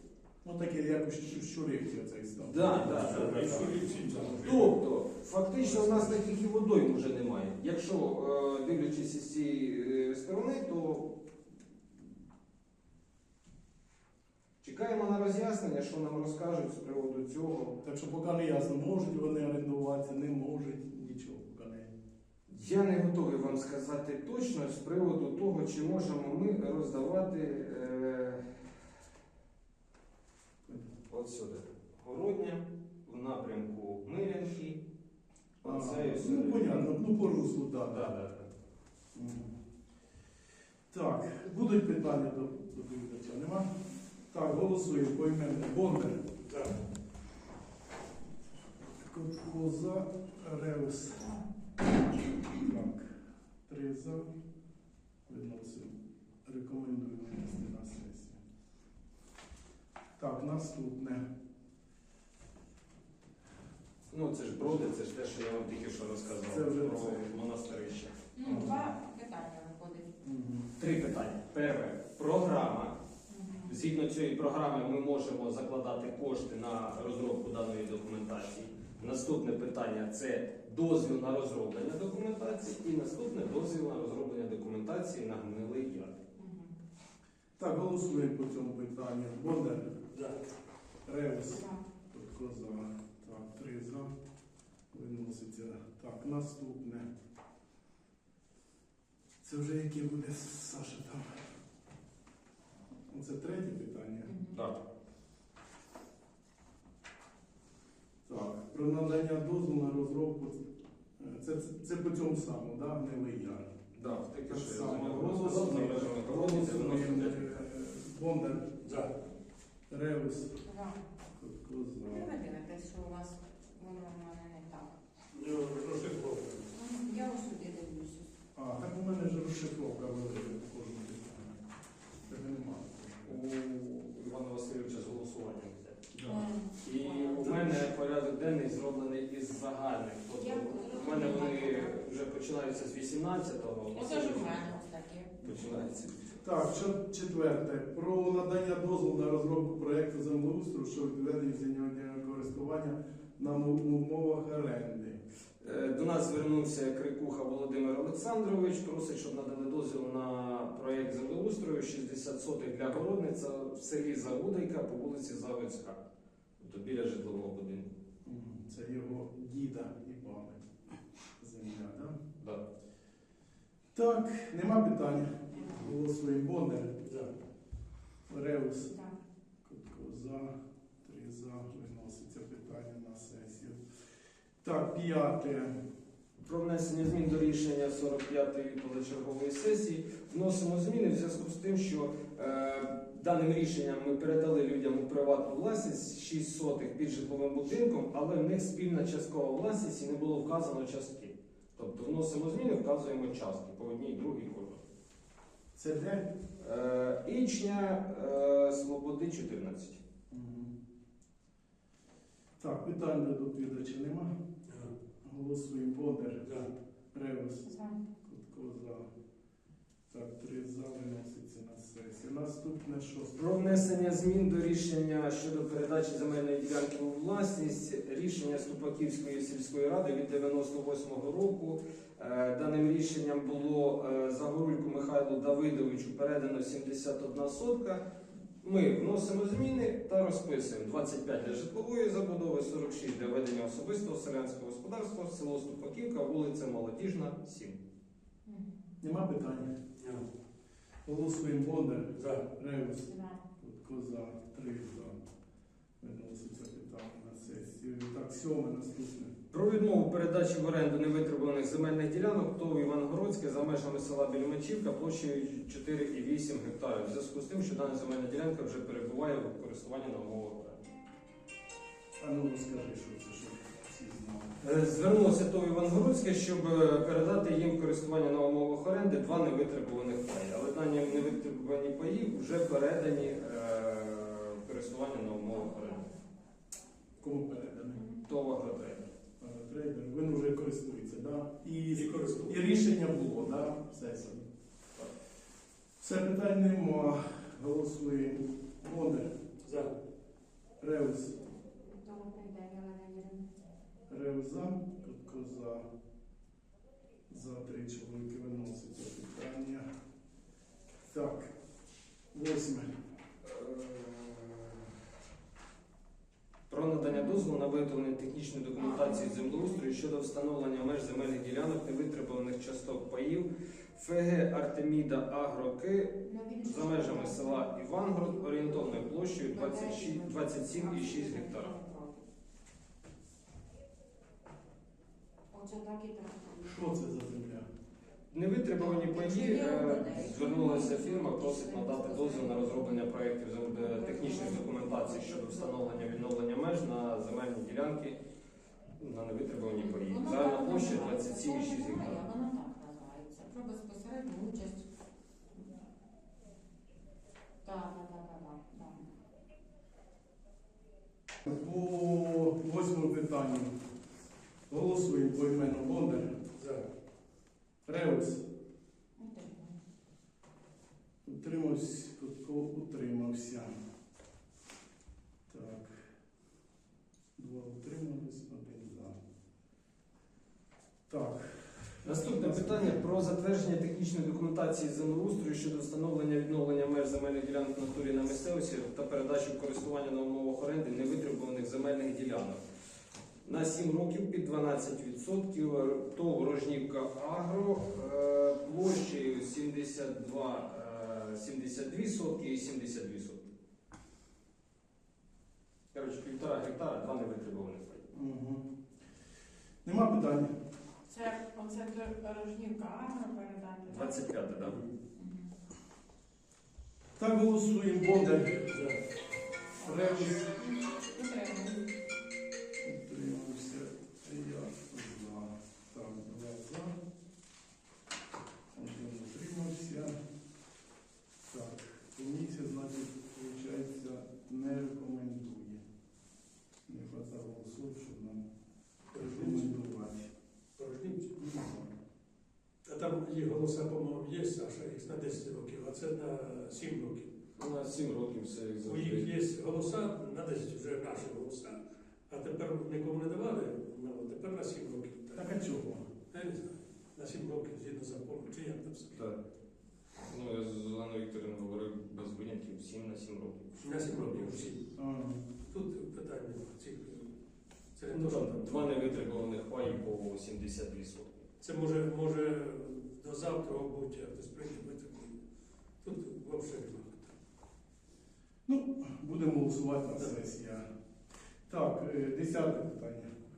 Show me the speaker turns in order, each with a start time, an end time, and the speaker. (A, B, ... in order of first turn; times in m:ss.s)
0:00.4-0:04.4 A
0:02.5-0:03.8 B
0:02.8-0:04.7 C
0:04.4-0:11.1 B
0:05.6-0:06.2 A
0:14.6-0:17.8 B
0:17.8-0:21.9 A
0:22.5-0:28.5 B
0:30.6-0:30.9 A
0:31.1-0:34.8 B
0:35.6-0:36.9 B
0:35.6-0:38.0 A
0:37.8-0:38.5 B
0:39.1-0:39.6 A
0:40.9-0:43.7 A
0:44.3-0:46.2 A
0:46.4-0:46.7 C
0:49.0-0:51.4 A
0:52.5-0:53.1 A
0:53.7-0:54.3 A
0:55.3-0:58.4 A
1:00.2-1:01.2 A
1:04.1-1:08.1 B
1:06.5-1:07.3 A
1:08.4-1:10.1 D
1:08.4-1:08.8 A
1:10.2-1:10.7 A
1:10.8-1:13.0 B
1:13.3-1:13.7 D
1:13.7-1:26.2 B
1:26.4-1:26.7 D
1:27.6-1:29.9 A
1:31.0-1:34.1 A
1:31.5-1:31.8 D
1:34.9-1:37.1 A
1:39.4-1:41.4 A
1:43.1-1:44.3 A
1:44.2-1:44.6 D
1:44.5-1:44.8 B
1:48.2-1:50.6 A
1:51.2-1:53.7 A
1:53.9-1:57.6 B
1:54.5-1:58.7 A
1:58.8-1:59.1 C
1:59.9-2:00.6 A
2:00.6-2:01.0 D
2:01.3-2:02.3 A
2:02.1-2:05.0 D
2:05.3-2:06.7 C
2:06.7-2:08.3 D
2:08.5-2:11.6 A
2:12.2-2:13.4 A
2:13.2-2:24.7 B
2:16.2-2:17.8 D
2:20.4-2:22.0 D
2:23.9-2:25.4 D
2:25.4-2:26.4 B
2:26.4-2:35.2 A
2:35.6-2:46.0 B
2:46.6-2:47.9 B
2:48.2-2:50.6 A
2:51.4-2:52.2 A
2:53.9-2:56.9 A
2:57.0-2:57.3 C
2:58.3-2:59.0 A
2:59.6-3:03.8 A
3:04.6-3:05.7 A
3:06.4-3:24.8 B
3:25.8-3:26.3 A
3:26.6-3:30.0 B
3:30.3-3:30.7 A
3:32.6-3:34.3 A
3:34.7-3:34.9 C
3:35.2-3:36.4 A
3:37.1-3:37.7 A
3:37.6-3:38.0 D
3:38.2-3:39.1 A
3:40.1-3:43.9 A
3:43.4-3:58.0 B
3:58.6-4:07.8 B
4:08.4-4:08.7 D
4:09.0-4:09.7 A
4:11.0-4:15.2 A
4:12.2-4:12.4 C
4:13.0-4:13.4 D
4:16.0-4:19.3 A
4:19.5-4:30.8 B
4:32.2-4:34.6 A
4:34.6-4:46.0 B
4:47.2-4:48.0 A
4:48.2-4:49.0 B
4:49.4-4:54.5 A
4:51.9-4:52.6 C
4:56.0-4:59.3 A
4:59.6-4:59.9 C
5:00.8-5:01.4 A
5:01.6-5:03.5 D
5:04.1-5:05.8 A
5:07.3-5:09.8 A
5:11.1-5:11.5 A
5:12.3-5:12.9 A
5:13.4-5:14.8 B
5:16.7-5:31.7 B
5:17.1-5:17.4 D
5:18.8-5:19.8 D
5:26.2-5:27.7 D
5:28.2-5:32.2 D
5:35.5-5:36.7 D
5:36.6-5:37.7 A
5:38.3-5:48.2 B
5:38.8-5:43.0 D
5:43.7-5:46.0 D
5:49.0-5:52.2 B
5:49.8-5:54.8 D
5:57.6-5:59.0 D
6:01.4-6:03.7 A
6:04.7-6:06.3 A
6:06.6-6:06.8 C
6:07.8-6:08.4 A
6:09.2-6:09.8 D
6:11.2-6:13.7 A
6:15.5-6:16.0 A
6:17.4-6:19.2 A
6:21.1-6:23.0 A
6:22.0-6:32.6 B
6:33.4-6:43.5 B
6:45.9-6:48.0 B
6:48.1-6:48.6 A
6:49.8-6:50.5 A
6:51.1-6:54.2 D
6:53.8-6:54.8 B
6:55.2-6:55.5 D
6:57.2-6:58.6 A
6:58.5-6:59.0 C
6:59.8-7:00.5 A
6:59.8-7:01.9 D
7:02.8-7:06.9 A
7:08.7-7:10.2 A
7:11.4-7:15.8 A
7:16.9-7:18.4 A
7:19.1-7:19.8 C
7:19.1-7:20.3 A
7:20.8-7:21.4 C
7:21.4-7:21.9 A
7:22.8-7:27.3 C
7:27.6-7:29.3 B
7:28.8-7:31.8 C
7:32.3-7:35.5 C
7:35.3-7:36.1 A
7:36.3-7:39.2 C
7:40.2-7:43.7 B
7:43.8-7:44.8 C
7:44.9-7:45.4 A
7:45.7-7:47.3 C
7:47.9-7:48.9 C
7:48.2-7:51.4 B
7:51.6-7:55.3 C
7:56.0-7:57.3 C
7:58.6-8:00.8 A
8:01.7-8:03.3 A